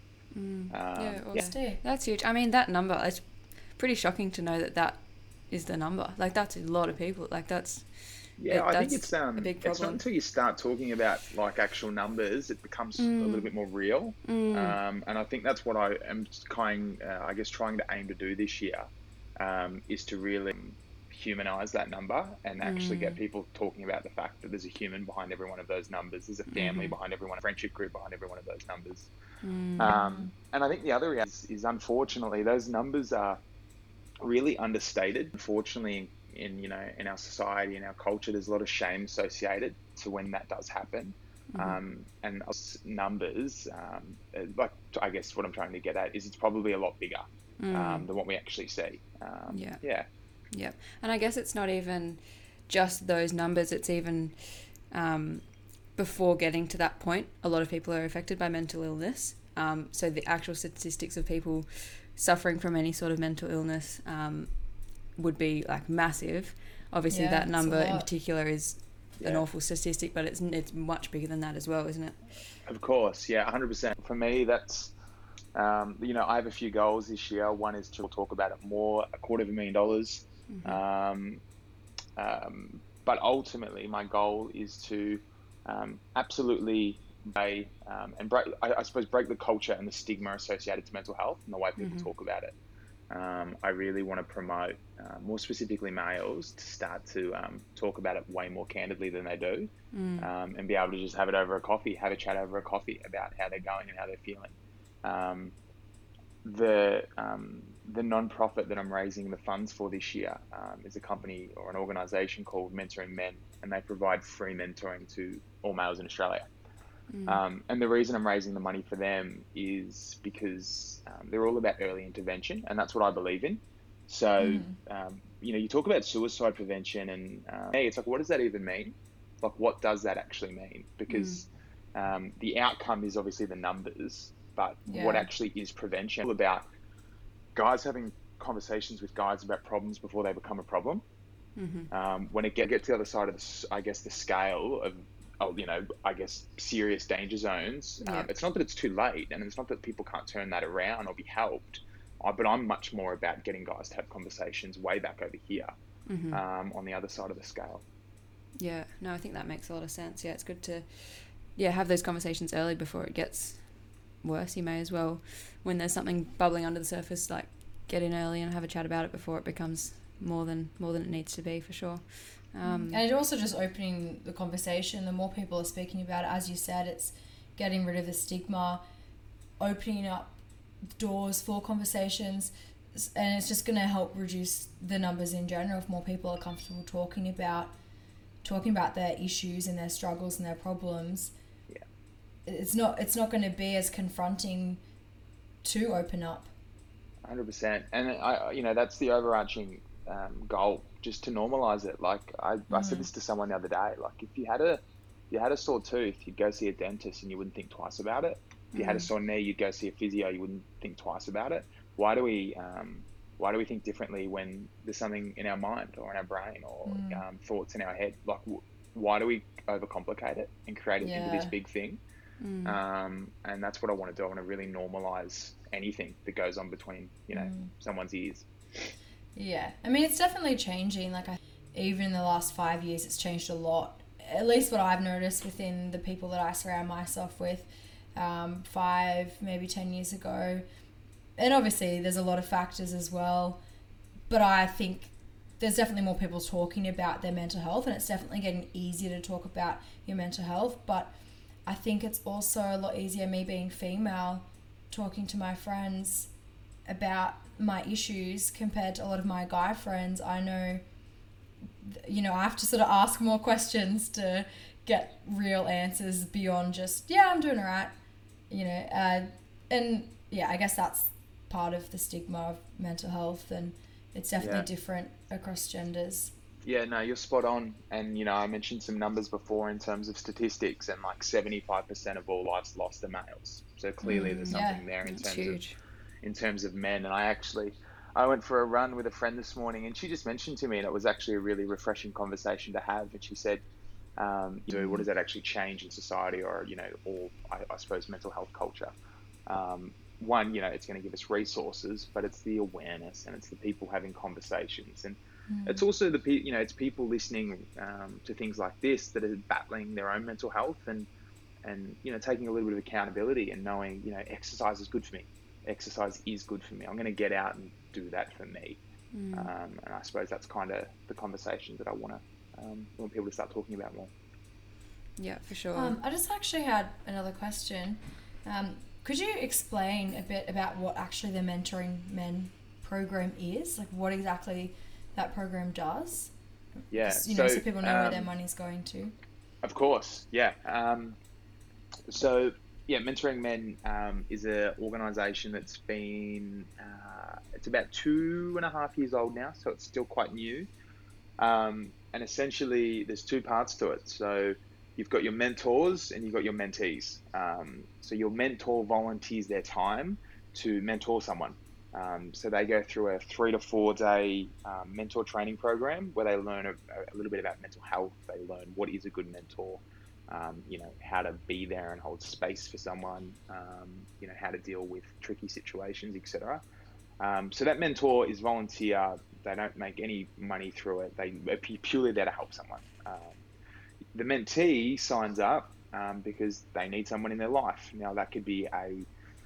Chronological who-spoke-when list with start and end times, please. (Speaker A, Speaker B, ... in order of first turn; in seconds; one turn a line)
Speaker A: 0.3-10.0
Speaker B: 0.7-1.5
Speaker C: 1.3-1.8
Speaker B: 8.4-29.1
Speaker A: 13.0-13.5
Speaker A: 14.2-14.8
Speaker A: 22.6-23.2
Speaker A: 26.5-26.9
Speaker A: 29.4-29.9
Speaker B: 29.8-33.4
Speaker C: 29.9-30.3
Speaker B: 34.2-50.0
Speaker A: 41.5-41.8
Speaker A: 47.6-48.1
Speaker A: 49.5-49.8
Speaker A: 50.5-64.6
Speaker A: 65.1-72.3
Speaker C: 67.1-68.1
Speaker B: 72.7-74.9
Speaker B: 75.5-81.4
Speaker A: 80.5-80.8
Speaker B: 82.2-92.5
Speaker A: 91.8-92.1
Speaker B: 93.1-105.5
Speaker A: 99.9-100.3
Speaker B: 106.4-116.4
Speaker A: 117.1-117.4
Speaker B: 117.2-136.6
Speaker C: 124.4-124.8
Speaker A: 131.1-131.4
Speaker C: 134.9-135.3
Speaker B: 137.5-141.0
Speaker A: 141.6-141.9
Speaker B: 141.9-155.7
Speaker A: 148.0-148.3
Speaker A: 156.1-156.4
Speaker B: 156.3-157.8
Speaker A: 158.6-173.0
Speaker C: 172.6-178.8
Speaker C: 179.6-180.3
Speaker C: 180.9-187.7
Speaker C: 188.4-191.3
Speaker C: 192.4-194.8
Speaker C: 195.6-196.5
Speaker B: 197.2-222.0
Speaker C: 202.7-203.1
Speaker A: 208.7-209.1
Speaker C: 216.8-217.2
Speaker C: 221.0-221.5
Speaker A: 222.4-222.8
Speaker B: 222.6-228.9
Speaker C: 227.3-227.7
Speaker C: 229.3-240.7
Speaker C: 241.4-243.6
Speaker C: 244.3-251.1
Speaker C: 251.7-256.3
Speaker C: 256.9-260.8
Speaker C: 261.8-267.9
Speaker C: 268.5-276.3
Speaker B: 274.4-274.7
Speaker B: 276.6-285.6
Speaker A: 284.0-285.8
Speaker C: 284.5-284.8
Speaker B: 286.2-293.6
Speaker B: 294.2-298.9
Speaker A: 294.7-295.0
Speaker B: 299.5-311.1
Speaker C: 305.5-305.9
Speaker B: 311.6-318.8
Speaker A: 319.1-319.5
Speaker B: 319.3-324.1
Speaker A: 325.2-325.9
Speaker C: 325.7-336.3
Speaker B: 336.9-338.3
Speaker C: 337.0-339.1
Speaker B: 339.6-341.2
Speaker B: 342.1-350.7
Speaker B: 351.4-376.6
Speaker B: 377.2-383.4
Speaker B: 384.1-389.1